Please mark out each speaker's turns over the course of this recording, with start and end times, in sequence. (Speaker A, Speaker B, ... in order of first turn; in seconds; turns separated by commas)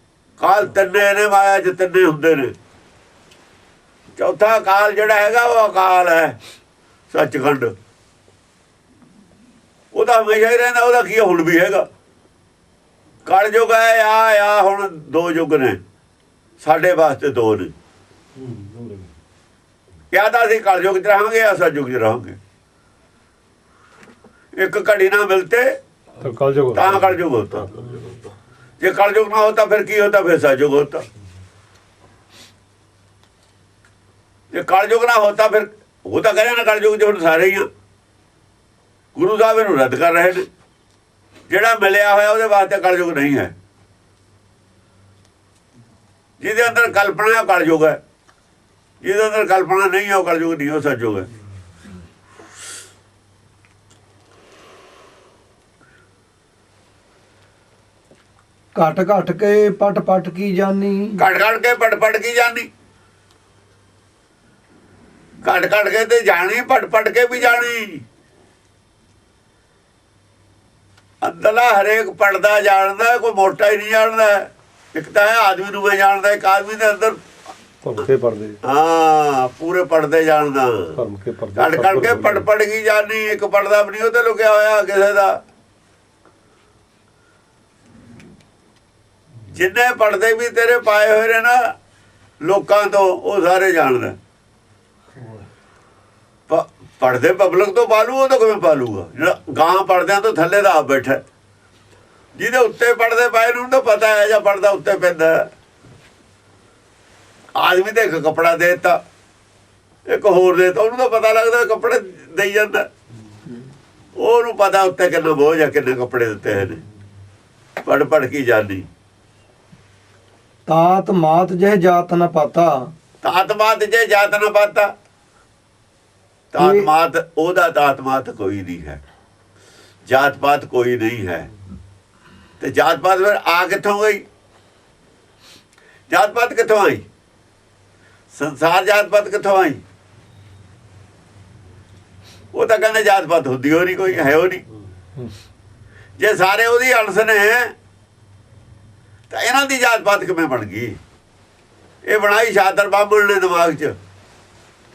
Speaker A: 0.4-2.5, Speaker A: 4.2-6.4, Speaker A: 7.1-7.7, Speaker A: 9.9-11.9, Speaker A: 13.2-15.8, Speaker A: 16.6-17.7, Speaker B: 18.4-19.1, Speaker A: 20.1-22.4, Speaker A: 24.6-25.8, Speaker B: 26.2-27.2, Speaker A: 26.7-27.8, Speaker A: 28.8-31.0, Speaker A: 34.5-37.7, Speaker A: 39.1-40.5, Speaker A: 41.5-43.5, Speaker A: 46.4-48.0, Speaker A: 49.0-51.3, Speaker C: 58.8-61.2, Speaker A: 61.2-62.7, Speaker A: 65.4-68.0, Speaker A: 71.2-77.2, Speaker B: 77.8-78.6, Speaker A: 78.6-81.0, Speaker B: 80.9-82.5, Speaker A: 81.5-85.4, Speaker A: 89.5-91.7, Speaker A: 92.4-94.2, Speaker A: 96.5-101.2, Speaker A: 102.3-105.5, Speaker A: 107.6-109.0, Speaker A: 110.0-112.9, Speaker A: 114.2-116.8, Speaker A: 117.8-118.9, Speaker C: 120.7-122.9, Speaker A: 123.2-124.9, Speaker A: 126.5-129.0, Speaker C: 126.6-126.9, Speaker A: 130.1-131.5, Speaker A: 132.6-134.2, Speaker A: 136.1-137.0, Speaker A: 138.3-139.8, Speaker A: 142.5-144.6, Speaker A: 146.2-147.7, Speaker A: 149.3-151.0, Speaker A: 152.0-154.0